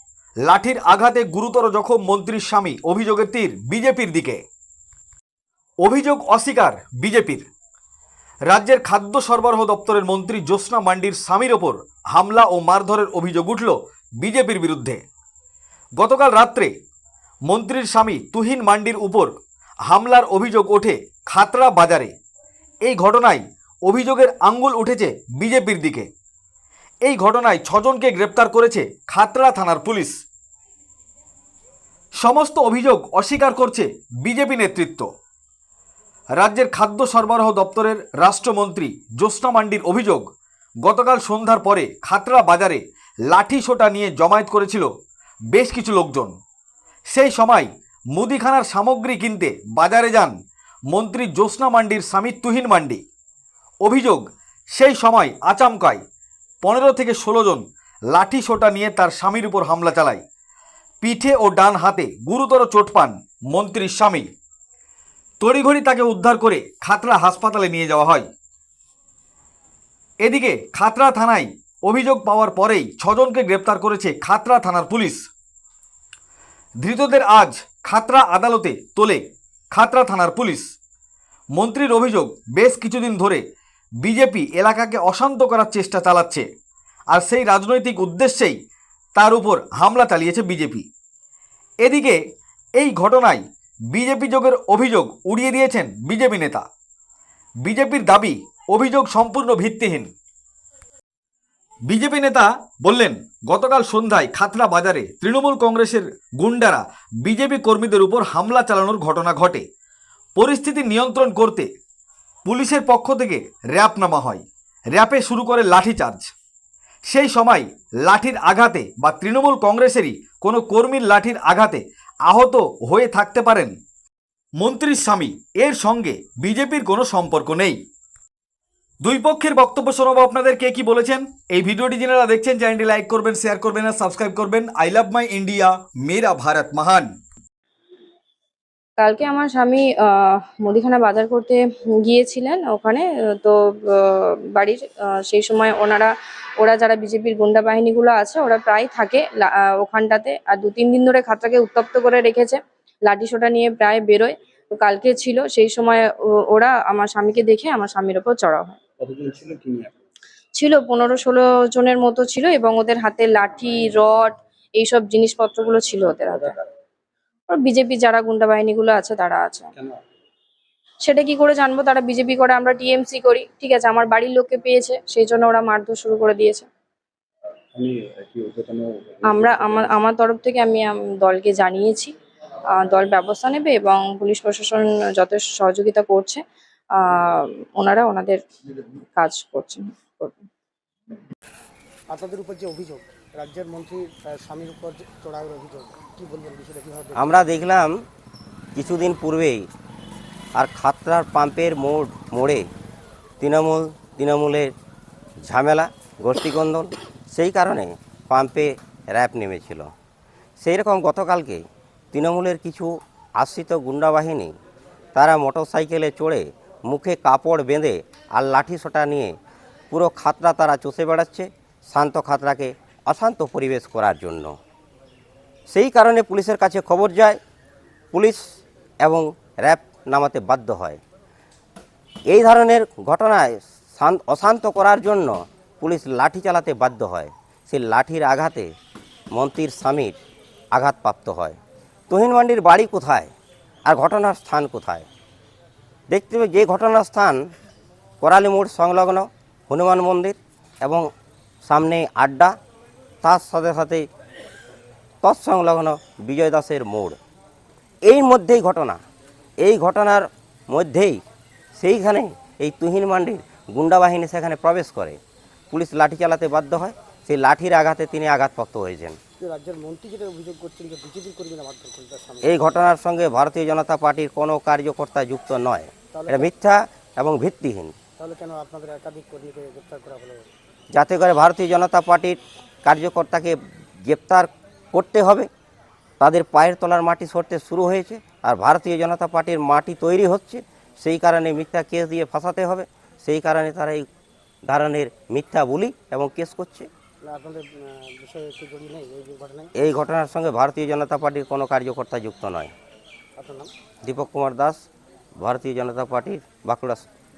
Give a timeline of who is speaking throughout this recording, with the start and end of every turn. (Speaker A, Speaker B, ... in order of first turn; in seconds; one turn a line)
Speaker A: 0.5-4.4
Speaker A: 5.8-7.5
Speaker A: 8.5-15.0
Speaker A: 16.0-16.7
Speaker A: 17.5-19.3
Speaker A: 19.9-22.1
Speaker A: 22.8-26.1
Speaker A: 27.1-30.1
Speaker A: 32.2-35.1
Speaker A: 36.4-40.2
Speaker A: 40.8-44.9
Speaker A: 45.5-46.3
Speaker A: 47.1-50.3
Speaker A: 50.9-53.0
Speaker A: 53.8-56.0
Speaker A: 56.6-60.2
Speaker A: 61.0-64.3
Speaker A: 65.4-68.3
Speaker A: 70.2-75.2
Speaker A: 76.8-80.7
Speaker A: 81.5-83.4
Speaker A: 84.0-86.5
Speaker A: 87.1-88.6
Speaker A: 89.1-90.9
Speaker A: 91.8-92.2
Speaker A: 92.8-96.6
Speaker A: 97.6-100.1
Speaker A: 101.9-109.6
Speaker A: 110.4-111.7
Speaker A: 112.4-116.3
Speaker A: 117.0-123.7
Speaker A: 124.6-127.8
Speaker A: 129.0-137.1
Speaker B: 139.0-158.8
Speaker C: 159.0-159.9
Speaker B: 160.6-166.5
Speaker B: 167.5-169.7
Speaker B: 171.0-176.7
Speaker C: 177.8-179.7
Speaker B: 179.3-182.1
Speaker D: 179.4-179.9
Speaker B: 182.8-186.4
Speaker B: 187.0-188.4
Speaker B: 189.2-190.4
Speaker D: 192.1-197.2
Speaker E: 197.2-198.0
Speaker E: 198.8-199.7
Speaker E: 200.6-202.7
Speaker E: 203.4-204.7
Speaker E: 205.5-209.9
Speaker E: 210.6-214.5
Speaker E: 215.2-219.3
Speaker E: 219.9-224.6
Speaker E: 225.7-227.4
Speaker E: 228.1-228.4
Speaker E: 229.0-231.0
Speaker E: 232.3-238.7
Speaker E: 239.3-240.2
Speaker E: 240.7-241.6
Speaker E: 242.1-243.3
Speaker E: 243.9-245.1
Speaker E: 246.1-247.4
Speaker E: 248.2-251.1
Speaker E: 251.7-252.5
Speaker E: 253.2-254.1
Speaker E: 255.2-257.2
Speaker E: 258.0-259.0
Speaker E: 259.6-261.2
Speaker E: 261.8-265.2
Speaker E: 265.7-269.2
Speaker D: 269.4-272.8
Speaker E: 272.4-277.9
Speaker D: 276.1-276.5
Speaker D: 278.2-280.5
Speaker E: 280.9-285.5
Speaker E: 286.2-294.1
Speaker E: 294.7-296.9
Speaker D: 297.2-299.7
Speaker E: 299.8-302.7
Speaker D: 303.4-303.7
Speaker E: 304.0-304.8
Speaker E: 305.4-307.0